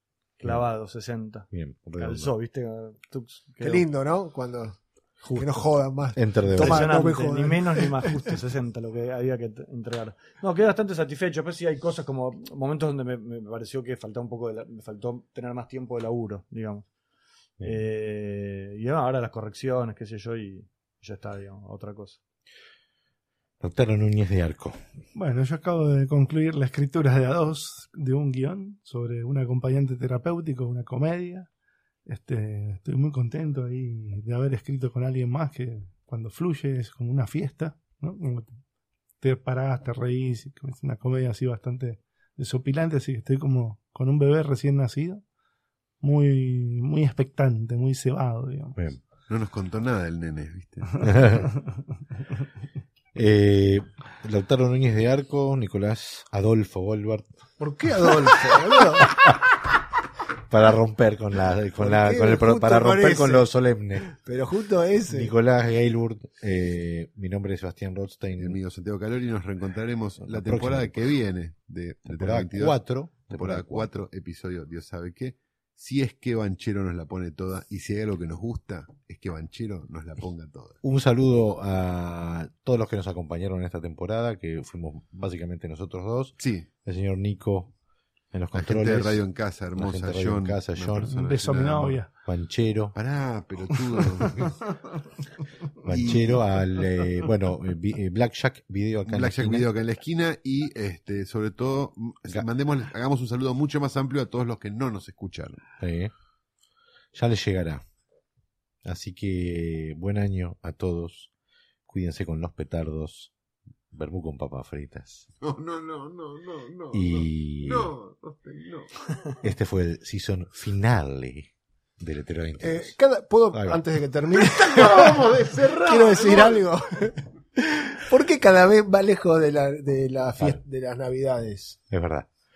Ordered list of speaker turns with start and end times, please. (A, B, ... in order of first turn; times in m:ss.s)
0:00.4-0:03.9 A
0:00.4-0:00.7 B
0:01.5-0:02.3 B
0:03.6-0:04.8 C
0:05.3-0:05.5 B
0:05.3-0:08.2 C
0:06.1-0:07.1 B
0:06.5-0:16.9 A
0:17.6-0:22.2 A
0:23.6-0:24.8 B
0:25.2-0:31.5 D
0:32.1-0:38.5 D
0:39.2-0:45.2 D
0:46.0-0:48.8 D
0:49.3-0:51.1 E
0:51.0-0:51.5 B
0:53.1-0:57.3 B
0:57.6-0:59.2 C
0:59.1-0:59.4 B
1:00.5-1:04.1 B
1:01.8-1:03.5 C
1:04.1-1:05.3 C
1:05.1-1:08.6 B
1:08.4-1:20.8 E
1:10.3-1:11.1 B
1:12.1-1:13.9 B
1:20.8-1:27.7 B
1:26.4-1:26.7 E
1:28.3-1:29.2 B
1:28.5-1:32.0 E
1:29.8-1:31.2 B
1:31.1-1:32.1 D
1:32.2-1:33.0 B
1:33.0-1:34.6 E
1:35.8-1:39.7 B
1:35.9-1:36.5 E
1:39.1-1:45.6 E
1:45.8-1:46.1 B
1:47.1-1:47.8 B
1:48.8-1:51.3 B
1:51.9-1:53.3 B
1:53.9-1:55.3 B
1:55.4-1:58.9 E
1:56.9-1:57.9 B
1:59.4-2:03.0 B
2:02.6-2:07.2 C
2:03.5-2:03.8 B
2:04.4-2:06.6 E
2:07.7-2:11.8 C
2:11.9-2:12.3 B